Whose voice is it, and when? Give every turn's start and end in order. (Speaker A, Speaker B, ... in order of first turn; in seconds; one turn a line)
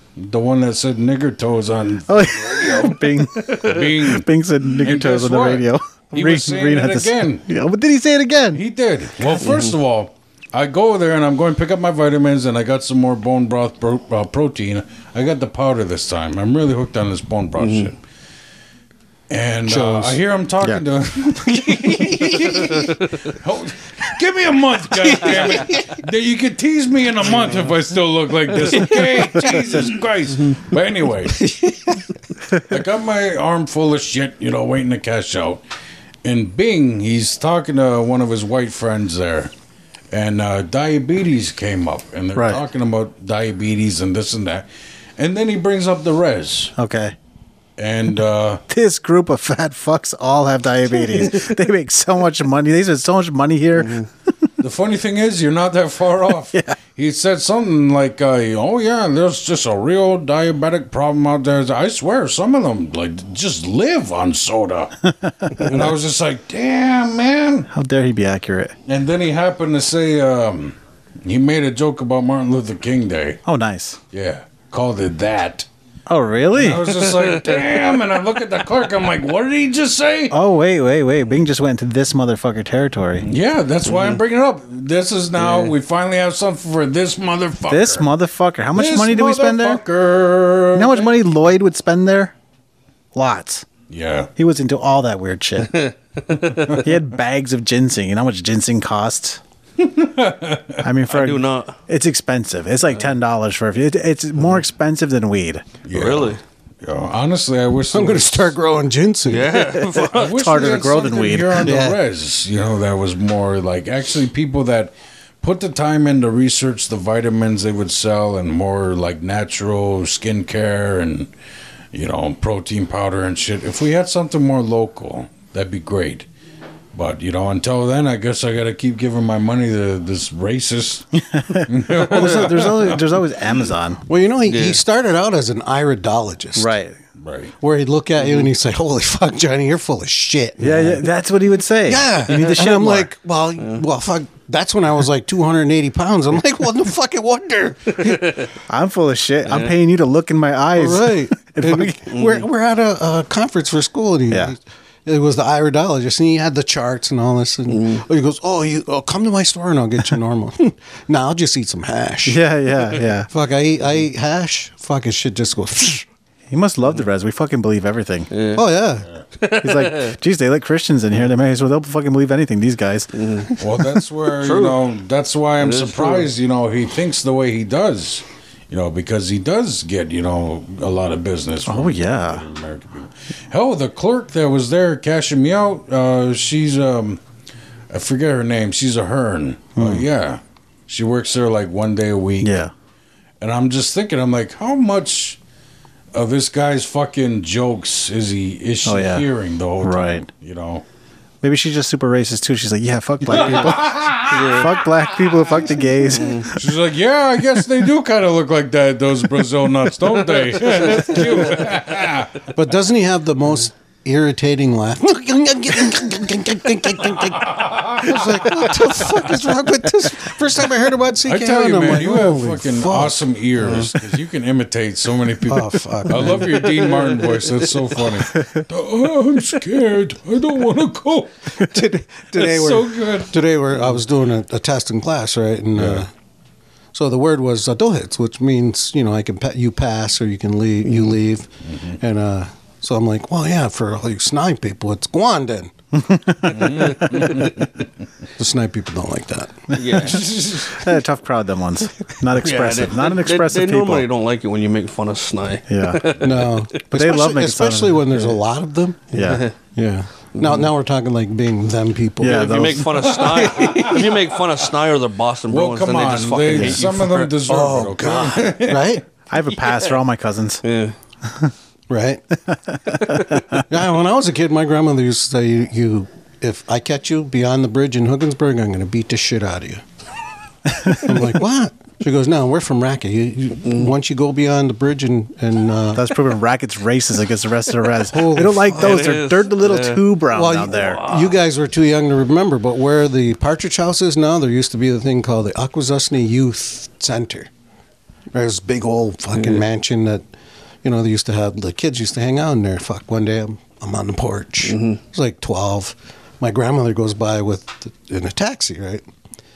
Speaker A: 0.2-7.4
Speaker B: 2.1-8.6
Speaker A: 8.5-18.0
Speaker C: 17.6-17.9
Speaker A: 19.3-31.5
Speaker D: 19.6-20.2
Speaker D: 21.4-22.9
Speaker D: 25.2-25.9
Speaker C: 28.8-29.5
Speaker D: 31.6-32.0
Speaker A: 32.6-35.6
Speaker A: 36.2-39.5
Speaker A: 40.1-44.6
Speaker B: 42.3-42.6
Speaker A: 45.2-46.7
Speaker B: 46.8-47.1
Speaker A: 47.8-48.6
Speaker B: 48.7-54.5
Speaker C: 53.8-54.1
Speaker A: 54.6-64.9
Speaker B: 65.0-65.9
Speaker A: 65.5-67.7
Speaker B: 67.7-68.7
Speaker A: 68.8-73.4
Speaker B: 73.4-74.0
Speaker A: 74.1-75.7
Speaker B: 76.1-76.9
Speaker A: 76.5-80.4
Speaker C: 76.9-77.6
Speaker B: 80.3-83.3
Speaker A: 83.2-88.1
Speaker C: 83.9-84.2
Speaker B: 87.7-89.8
Speaker A: 88.7-91.1
Speaker B: 90.7-92.3
Speaker B: 93.1-93.7
Speaker A: 93.9-94.3
Speaker B: 94.4-95.8
Speaker C: 95.7-96.8
Speaker B: 96.7-99.4
Speaker A: 99.8-100.8
Speaker B: 100.8-105.7
Speaker C: 101.1-101.7
Speaker A: 105.8-108.5
Speaker C: 105.9-106.4
Speaker D: 107.9-109.7
Speaker C: 109.3-110.6
Speaker B: 110.0-111.9
Speaker A: 110.1-121.3
Speaker D: 111.6-112.0
Speaker A: 121.9-126.2
Speaker A: 126.9-133.1
Speaker B: 131.3-134.0
Speaker C: 132.2-132.5
Speaker D: 134.1-136.7
Speaker C: 134.5-134.8
Speaker B: 136.6-137.0
Speaker A: 137.2-137.5
Speaker D: 137.6-141.0
Speaker C: 138.2-138.5
Speaker B: 140.6-143.1
Speaker D: 141.9-148.3
Speaker C: 148.0-148.5
Speaker B: 148.7-152.1
Speaker C: 149.4-149.7
Speaker D: 150.8-162.4
Speaker C: 152.1-152.4
Speaker C: 157.7-158.0
Speaker B: 162.2-163.3
Speaker D: 163.3-166.0
Speaker B: 166.5-168.3
Speaker C: 168.3-168.6
Speaker D: 168.5-169.1
Speaker C: 169.4-170.1
Speaker B: 169.5-173.1
Speaker C: 173.2-173.5
Speaker A: 173.6-187.2
Speaker C: 174.4-174.8
Speaker C: 175.6-176.3
Speaker B: 181.7-182.4
Speaker A: 187.9-192.6
Speaker B: 189.8-190.1
Speaker B: 192.4-192.7
Speaker A: 193.4-195.4
Speaker A: 196.1-200.8
Speaker B: 198.8-199.3
Speaker B: 199.8-200.2
Speaker B: 201.4-206.7
Speaker A: 203.3-204.7
Speaker C: 203.3-204.7
Speaker C: 206.1-206.5
Speaker A: 206.5-212.5
Speaker C: 210.4-211.4
Speaker D: 212.5-223.9
Speaker A: 217.3-218.9
Speaker A: 221.3-231.7
Speaker C: 223.6-223.9
Speaker D: 225.4-226.8
Speaker C: 226.8-227.2
Speaker B: 228.3-228.6
Speaker D: 231.5-236.1
Speaker A: 232.3-233.3
Speaker A: 235.8-236.0
Speaker D: 236.9-245.7
Speaker B: 245.9-246.9
Speaker A: 246.4-247.7
Speaker C: 246.5-247.5
Speaker D: 248.4-249.7
Speaker C: 249.7-250.3
Speaker A: 249.8-250.8
Speaker B: 250.7-254.1
Speaker C: 252.3-256.6
Speaker B: 255.7-256.1
Speaker D: 256.2-262.7
Speaker B: 256.8-258.4
Speaker B: 259.1-259.5
Speaker C: 259.2-259.5
Speaker B: 262.2-263.2
Speaker C: 262.2-267.3
Speaker A: 263.0-264.2
Speaker A: 265.5-269.0
Speaker B: 266.5-266.8
Speaker D: 267.4-269.0
Speaker B: 269.3-270.6
Speaker C: 269.5-270.0
Speaker C: 270.6-270.9
Speaker B: 271.2-271.5
Speaker D: 271.9-272.2
Speaker B: 272.5-273.6
Speaker C: 272.9-273.4
Speaker D: 273.7-279.8
Speaker B: 280.7-281.2
Speaker D: 280.9-286.2
Speaker C: 283.6-283.9
Speaker B: 285.9-291.0
Speaker D: 288.1-289.1
Speaker C: 288.8-290.0
Speaker D: 290.3-297.5
Speaker C: 290.6-291.4
Speaker D: 298.3-300.2
Speaker C: 299.4-299.6
Speaker D: 300.8-309.0
Speaker C: 304.6-305.0